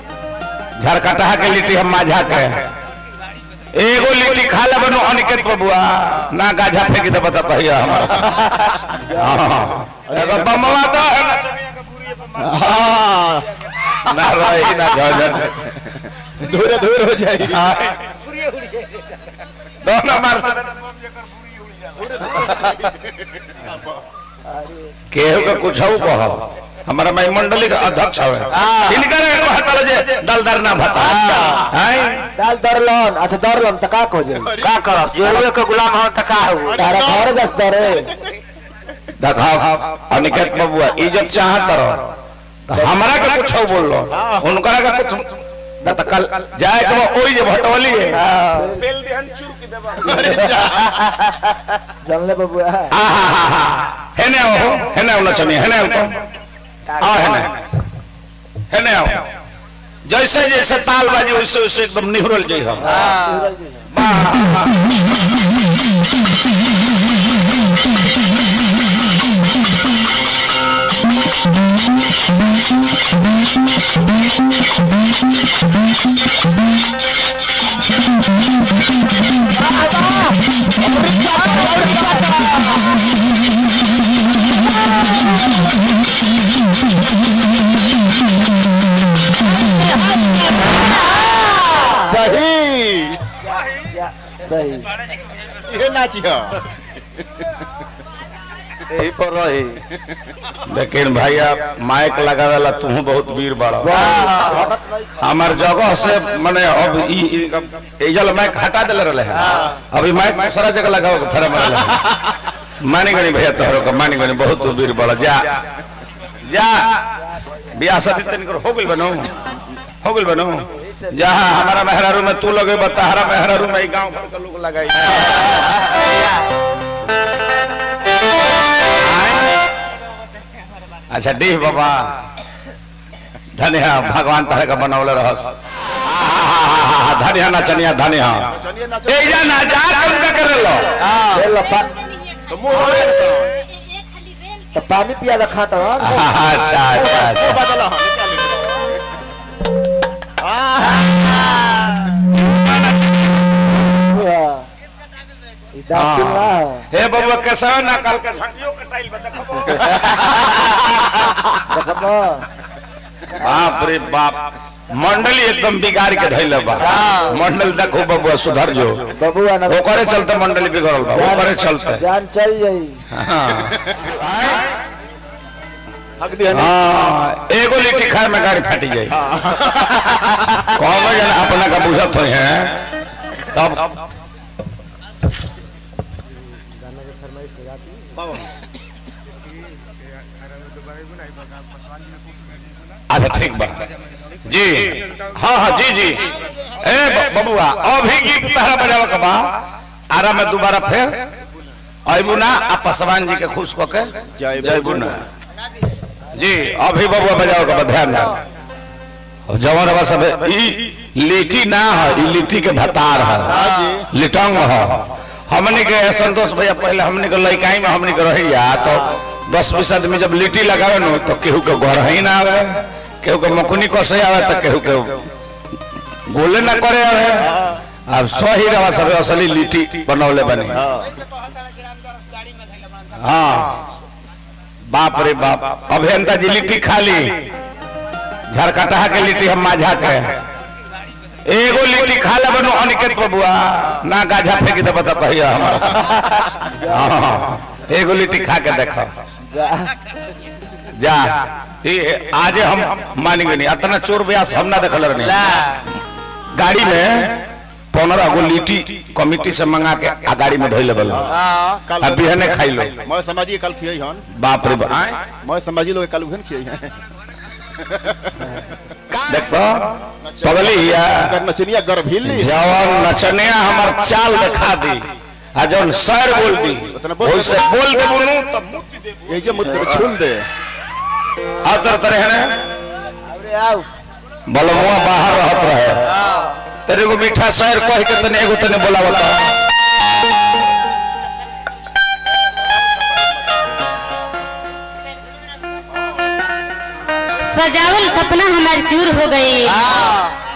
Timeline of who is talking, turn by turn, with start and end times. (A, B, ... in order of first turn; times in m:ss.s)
0:00.8-0:02.7 A
0:03.7-0:11.8 A
0:09.1-0:09.4 B
0:10.1-0:10.6 C
0:12.4-0:13.5 C
0:14.0-0:15.7 A
0:15.6-0:17.6 C
0:17.5-0:18.1 A
0:18.4-0:19.1 D
0:19.8-0:20.8 A
0:22.0-0:22.8 D
0:23.6-0:23.9 C
0:24.5-0:24.9 B
0:25.1-0:32.3 A
0:28.6-0:29.0 D
0:31.1-0:31.6 D
0:32.3-0:34.6 B
0:34.4-0:34.8 C
0:34.6-0:36.8 D
0:36.6-0:37.4 C
0:36.7-0:38.1 B
0:39.2-0:42.1 A
0:42.7-0:50.3 A
0:44.2-0:44.4 C
0:48.5-0:49.0 B
0:49.9-0:51.0 C
0:52.0-0:53.0 B
0:52.9-0:56.2 A
0:56.9-0:57.6 A
0:58.7-0:59.3 A
1:00.0-1:03.1 A
1:02.9-1:03.9 B
1:02.9-1:03.4 D
1:03.9-1:05.2 A
1:31.8-1:33.2 C
1:31.8-1:32.3 B
1:33.6-1:34.9 B
1:35.6-1:36.6 C
1:38.9-1:39.8 D
1:40.6-1:44.4 A
1:43.8-1:45.3 B
1:44.1-1:44.6 D
1:45.2-1:55.7 A
1:56.4-1:59.5 A
2:00.0-2:05.8 A
2:00.8-2:01.4 B
2:08.9-2:09.5 A
2:11.1-2:12.1 A
2:13.5-2:18.5 A
2:18.5-2:19.6 C
2:19.1-2:21.0 A
2:21.0-2:21.4 C
2:21.3-2:22.0 B
2:22.5-2:23.6 C
2:24.7-2:26.3 B
2:26.0-2:27.6 A
2:26.9-2:29.0 C
2:30.4-2:32.0 C
2:32.5-2:32.9 A
2:33.9-2:34.7 B
2:35.7-2:36.9 B
2:35.9-2:41.6 A
2:41.7-2:42.5 B
2:43.4-2:49.1 A
2:46.9-2:47.3 D
2:49.1-2:50.1 B
2:49.7-2:52.0 A
2:51.1-2:53.0 B
2:53.1-2:54.7 A
2:56.2-2:56.7 C
2:56.5-2:59.2 A
2:59.2-3:00.2 C
3:00.5-3:04.0 A
3:07.3-3:07.7 D
3:13.1-3:13.9 A
3:14.5-3:19.5 A
3:20.1-3:21.2 A
3:22.1-3:25.3 A
3:24.4-3:25.2 C
3:26.3-3:28.4 A
3:29.5-3:45.3 A
3:33.4-3:34.1 C
3:46.3-3:47.5 A
3:47.4-3:47.8 C
3:48.1-3:50.8 A
3:50.8-3:51.2 C
3:53.1-3:53.8 A
3:54.9-3:57.5 A
3:58.5-4:00.3 A
4:01.5-4:09.1 A
4:06.8-4:07.2 B
4:09.5-4:09.9 B
4:10.8-4:15.8 A
4:15.4-4:15.8 D
4:16.5-4:21.4 A
4:21.1-4:22.5 C
4:21.4-4:21.8 D
4:22.0-4:23.0 A
4:23.0-4:24.2 C
4:24.3-4:25.2 A
4:25.4-4:27.0 C
4:27.8-4:28.5 C
4:29.2-4:31.4 A
4:30.2-4:32.5 C
4:32.2-4:39.1 A
4:36.9-4:37.6 C
4:39.3-4:40.5 C
4:41.6-4:42.6 A
4:43.3-4:43.9 B
4:44.5-4:46.1 A
4:46.8-4:49.5 A
4:57.4-5:00.0 E
4:59.9-5:00.3 D